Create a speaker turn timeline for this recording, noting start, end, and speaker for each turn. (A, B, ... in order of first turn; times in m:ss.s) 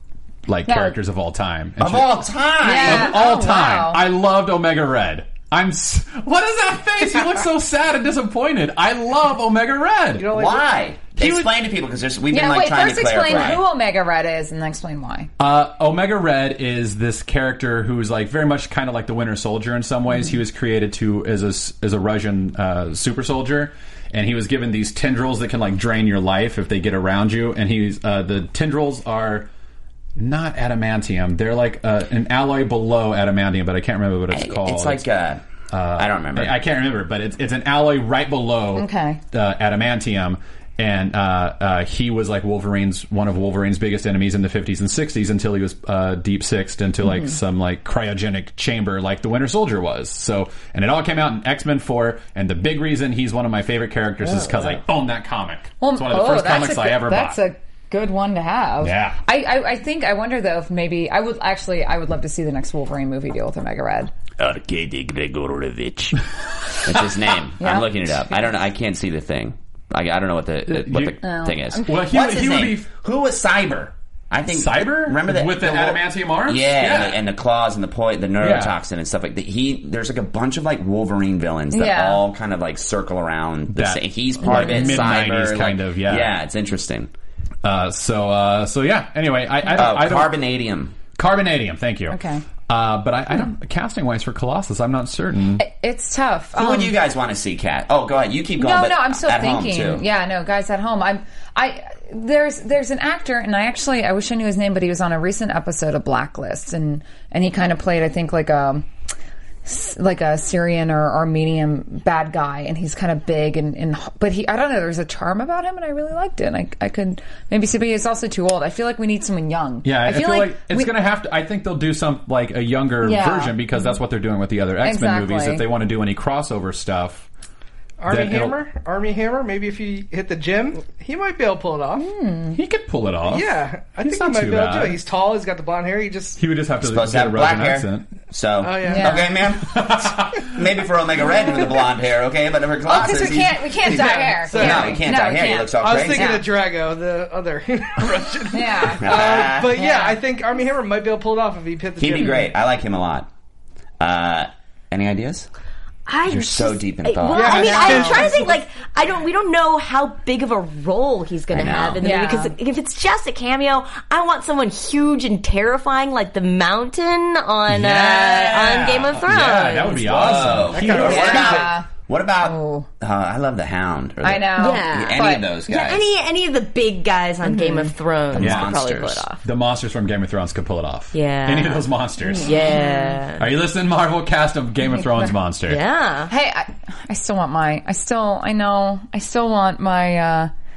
0:00.5-0:10.3 A
0:00.7-0:01.0 B
0:01.8-0:03.2 C
0:02.6-0:04.0 B
0:10.2-0:10.8 D
0:10.3-0:13.6 C
0:11.2-0:11.5 A
0:12.3-0:15.3 B
0:15.4-0:29.5 A
0:30.2-0:35.0 A
0:34.3-0:35.4 C
0:35.7-0:57.4 A
0:35.9-0:36.6 C
0:38.8-0:39.2 B
0:47.0-0:47.3 B
0:55.8-1:04.1 B
0:58.8-0:59.2 A
1:04.4-1:06.2 C
1:06.8-1:27.1 C
1:06.9-1:07.2 A
1:07.6-1:07.9 B
1:10.7-1:11.2 A
1:11.2-1:12.0 B
1:11.7-1:12.9 A
1:14.5-1:17.2 A
1:18.4-1:18.8 A
1:21.7-1:22.2 B
1:23.7-1:26.3 A
1:24.5-1:25.0 B
1:27.6-1:30.4 A
1:29.7-1:31.0 C
1:31.2-1:35.6 A
1:32.1-1:32.4 B
1:35.6-1:36.9 B
1:36.6-1:40.1 C
1:38.6-1:48.9 B
1:49.6-2:00.9 B
1:59.8-2:07.3 A
2:03.0-2:04.0 B
2:04.8-2:05.7 B
2:08.0-2:12.1 D
2:08.1-2:08.6 A
2:12.0-2:12.6 B
2:12.6-2:15.0 A
2:13.3-2:16.4 D
2:16.4-2:18.1 A
2:16.8-2:26.4 C
2:18.6-2:19.3 D
2:18.8-2:19.3 B
2:19.6-2:20.6 A
2:22.9-2:26.5 B
2:22.9-2:25.1 D
2:25.8-2:32.5 D
2:28.5-2:30.2 B
2:29.0-2:29.8 C
2:32.0-2:33.3 C
2:34.0-2:35.5 C
2:36.1-2:50.6 E
2:36.3-2:38.2 C
2:37.3-2:38.3 B
2:37.3-2:38.6 D
2:41.5-2:42.2 C
2:42.0-2:42.5 B
2:47.7-2:51.6 A
2:50.0-2:56.1 C
2:50.7-2:51.7 D
2:50.8-2:51.9 B
2:52.4-2:52.9 B
2:54.2-2:55.4 B
2:54.6-2:59.4 E
2:57.4-2:57.9 B
2:58.3-2:59.2 C
2:58.4-2:58.8 A
2:59.4-3:02.7 A
3:01.1-3:03.5 E
3:02.4-3:03.2 B
3:03.4-3:05.8 A
3:05.7-3:06.3 E
3:06.3-3:10.5 B